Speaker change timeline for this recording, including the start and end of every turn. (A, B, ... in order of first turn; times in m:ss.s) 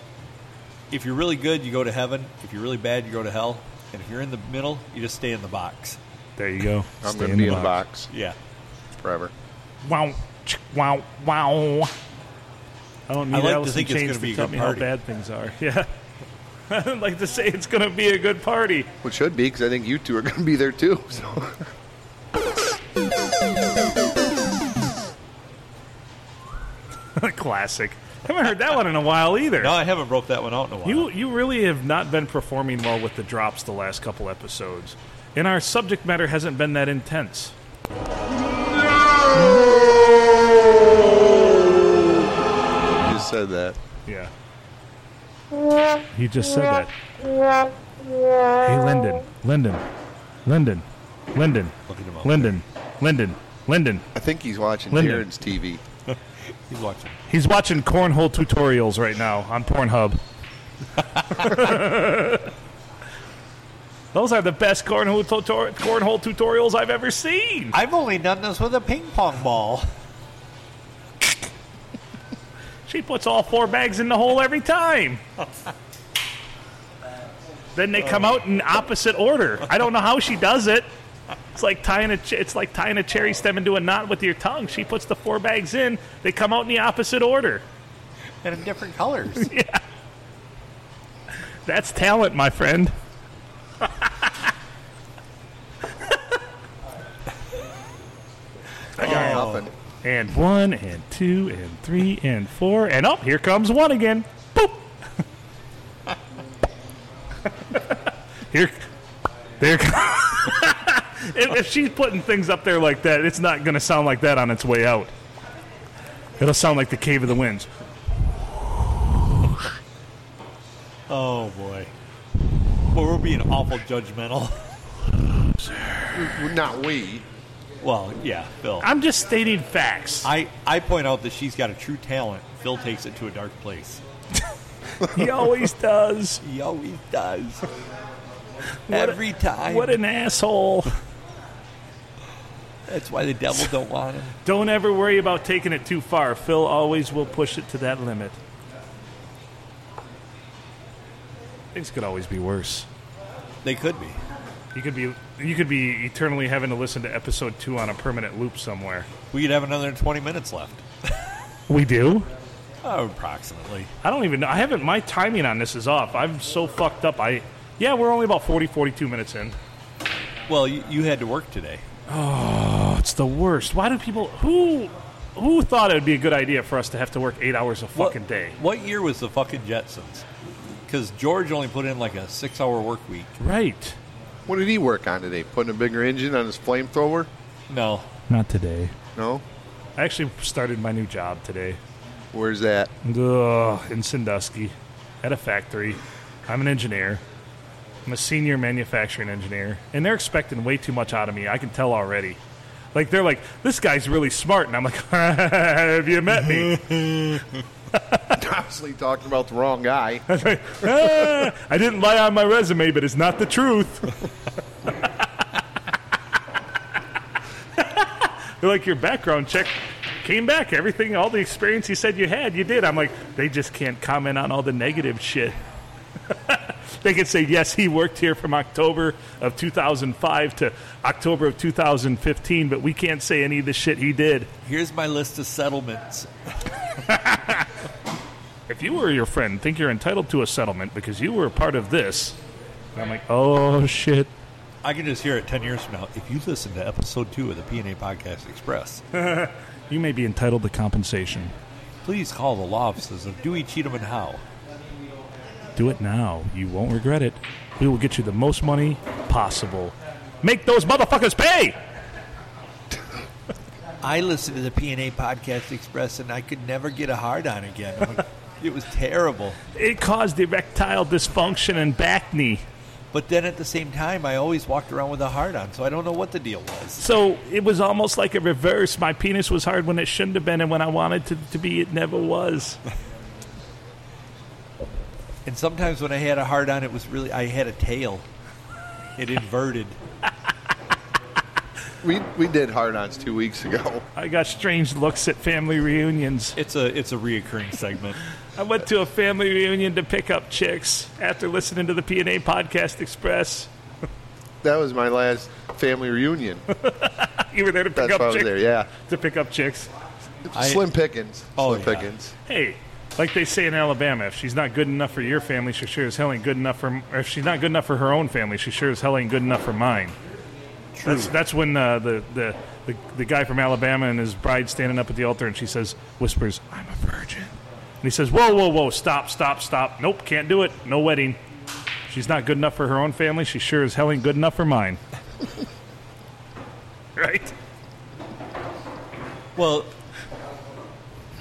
0:00.9-0:06.0 A
0:06.4-0:07.8 B
0:07.0-0:08.1 C
0:08.1-0:08.4 A
0:08.9-0:09.3 C
0:09.8-0:11.9 B
0:13.1-0:15.9 B
0:13.3-0:14.9 A
0:16.7-0:18.9 B
0:19.0-0:21.6 C
0:27.2-0:29.7 B
0:29.6-0:31.1 A
0:30.8-0:37.5 B
0:43.0-0:43.8 C
0:44.0-0:44.3 B
0:46.1-0:46.9 B
0:48.6-0:49.8 B
0:50.4-0:54.0 B
0:51.9-0:52.5 A
0:54.1-0:55.8 C
0:54.9-0:55.3 B
0:56.0-0:57.2 A
0:57.3-1:00.2 B
1:01.3-1:02.5 B
1:04.1-1:07.8 B
1:07.7-1:09.9 A
1:12.9-1:15.2 B
1:17.7-1:20.9 B
1:21.5-1:27.6 B
1:28.4-1:29.5 A
1:29.4-1:29.8 B
1:31.6-1:32.9 B
1:34.0-1:34.3 B
1:39.0-1:39.5 B
1:39.0-1:39.7 C
1:39.0-1:39.7 A
1:40.0-1:44.8 B
1:47.7-1:48.0 B
1:48.5-1:48.8 B
1:49.6-1:55.1 B
1:56.4-1:57.7 B
2:01.1-2:01.9 A
2:02.9-2:04.7 A
2:05.4-2:06.1 B
2:06.1-2:07.2 C
2:07.8-2:08.9 A
2:08.8-2:10.3 B
2:10.2-2:14.0 A
2:15.0-2:16.4 B
2:16.4-2:17.7 A
2:18.9-2:20.9 B
2:18.9-2:20.0 A
2:22.9-2:24.4 A
2:24.4-2:28.4 B
2:31.7-2:32.9 B
2:33.6-2:34.2 A
2:34.7-2:39.1 B
2:39.3-2:41.2 A
2:41.7-2:42.3 B
2:42.8-2:43.9 A
2:44.0-2:49.6 B
2:50.5-2:51.8 A
2:52.1-2:58.6 B
2:57.9-3:00.2 A
3:00.8-3:03.4 A
3:03.4-3:04.0 B
3:04.5-3:07.3 C
3:07.7-3:08.1 A
3:08.3-3:08.9 B
3:09.2-3:09.4 C
3:10.0-3:11.8 B
3:12.3-3:12.9 C
3:13.0-3:17.2 B
3:18.0-3:22.4 B
3:22.9-3:26.9 B
3:26.5-3:27.6 A
3:27.9-3:28.3 B
3:28.3-3:30.2 C
3:30.3-3:34.2 B
3:37.8-3:45.6 B
3:46.3-3:54.5 B
3:54.6-3:56.3 A
3:57.1-3:57.7 B
3:58.7-4:02.4 B
4:02.9-4:04.3 B
4:04.8-4:09.0 A
4:09.1-4:11.5 B
4:12.0-4:14.4 A
4:15.8-4:21.8 B
4:24.0-4:29.6 A
4:29.7-4:32.6 B
4:33.1-4:37.0 A
4:37.0-4:42.8 B
4:45.4-4:48.2 A
4:49.2-4:50.0 A
4:52.0-4:54.0 C
4:54.2-4:56.6 B
4:56.5-4:58.2 A
4:58.6-5:03.7 B
5:04.6-5:06.6 C
5:06.8-5:09.9 B
5:08.0-5:08.9 C
5:10.5-5:12.3 C
5:10.5-5:10.8 A
5:11.6-5:12.1 A
5:12.5-5:20.2 B
5:20.9-5:21.3 A
5:21.0-5:31.4 B
5:32.1-5:35.0 B
5:37.2-5:37.5 B
5:39.6-5:39.9 A